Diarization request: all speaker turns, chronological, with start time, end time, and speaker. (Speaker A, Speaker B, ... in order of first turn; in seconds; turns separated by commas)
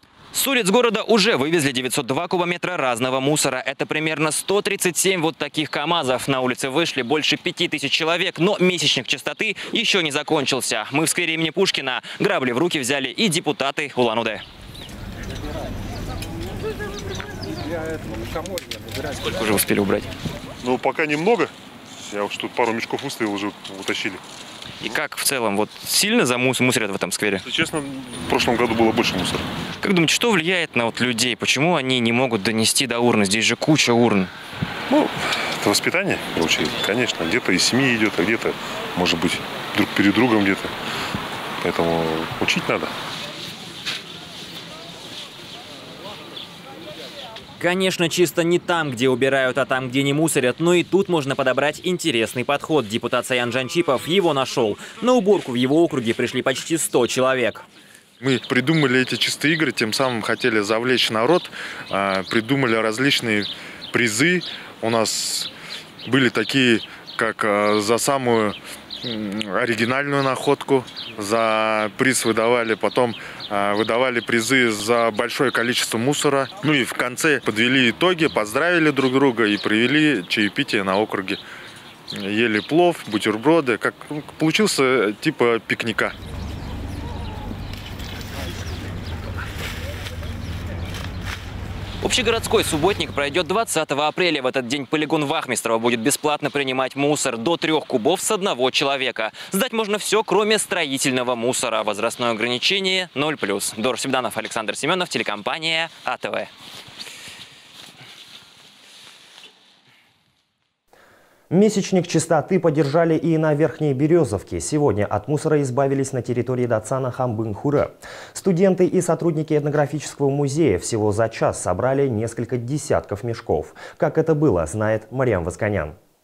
Speaker A: 0.3-14.4, Speaker A: 19.2-20.1, Speaker B: 20.6-21.5, Speaker B: 22.1-24.2, Speaker A: 24.8-27.5, Speaker B: 27.5-29.4, Speaker A: 29.8-34.3, Speaker B: 34.9-40.7, Speaker B: 41.6-42.9, Speaker A: 47.6-57.6, Speaker C: 58.2-65.5, Speaker C: 66.0-81.4, Speaker C: 82.1-86.1, Speaker A: 92.0-106.5, Speaker D: 111.5-126.0